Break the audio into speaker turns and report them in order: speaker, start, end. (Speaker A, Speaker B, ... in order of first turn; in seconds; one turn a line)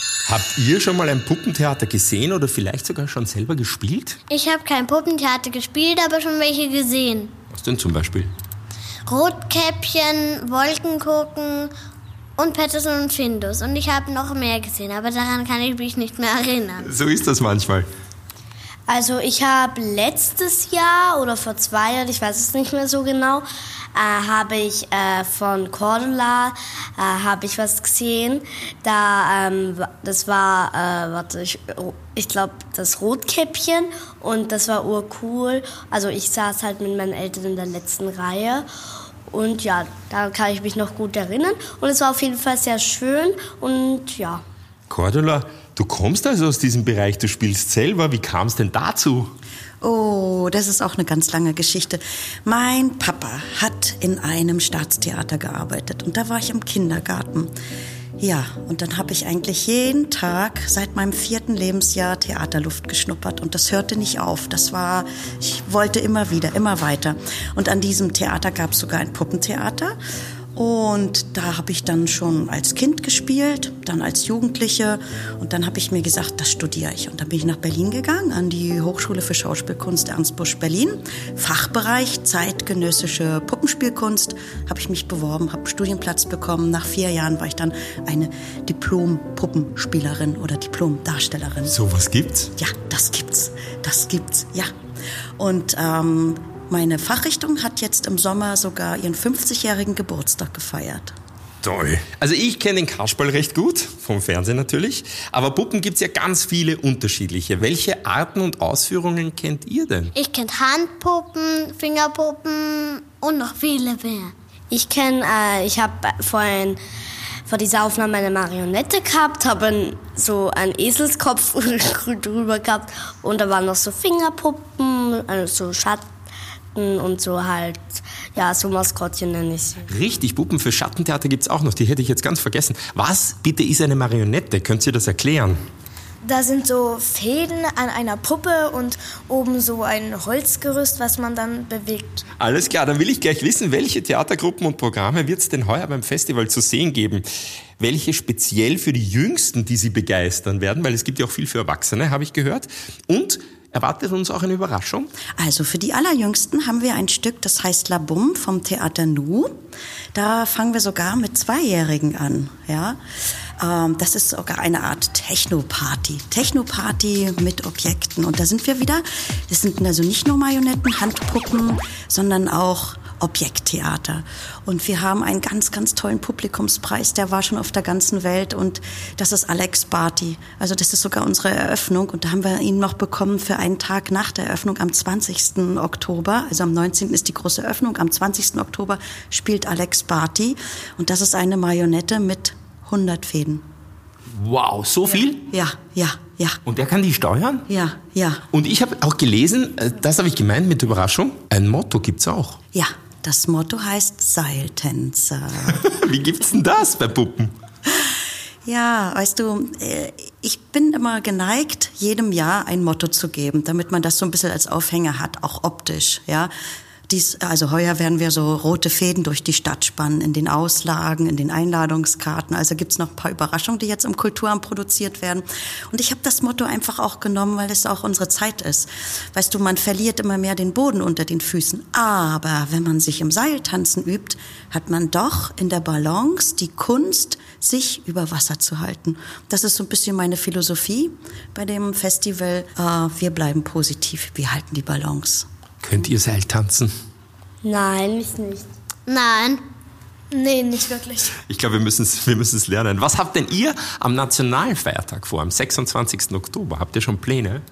Speaker A: 0.2-4.2
Speaker B: 4.3-7.3
Speaker A: 7.5-8.3
Speaker B: 9.1-11.7
Speaker B: 12.4-16.9
Speaker A: 16.8-17.9
Speaker C: 18.9-38.7
Speaker C: 39.3-44.4
Speaker A: 44.9-49.3
Speaker D: 49.8-57.5
Speaker D: 58.2-70.0
Speaker D: 70.5-91.8
Speaker A: 91.7-92.5
Speaker D: 92.6-94.7
Speaker D: 95.4-101.1
Speaker A: 101.6-110.1
Speaker B: 110.2-114.3
Speaker C: 114.7-116.8
Speaker C: 117.5-126.1
Speaker C: 126.7-129.9
Speaker A: 129.9-135.6
Speaker E: 136.2-142.2
Speaker A: 142.4-147.2
Speaker A: 147.8-155.2
Speaker D: 155.4-159.5
Speaker D: 160.1-163.0
Speaker D: 163.6-193.7
Speaker A: 194.3-195.5
Speaker D: 195.5-196.6
Speaker A: 196.7-197.7
Speaker D: 197.7-198.4
Speaker A: 198.5-202.6
Speaker D: 202.7-205.8
Speaker A: 205.6-207.5
Speaker D: 208.7-216.5
Speaker D: 217.1-245.5
Speaker A: 245.8-246.9
Speaker C: 247.6-248.7
Speaker B: 249.1-249.6
Speaker E: 250.3-251.3
Speaker A: 251.4-257.6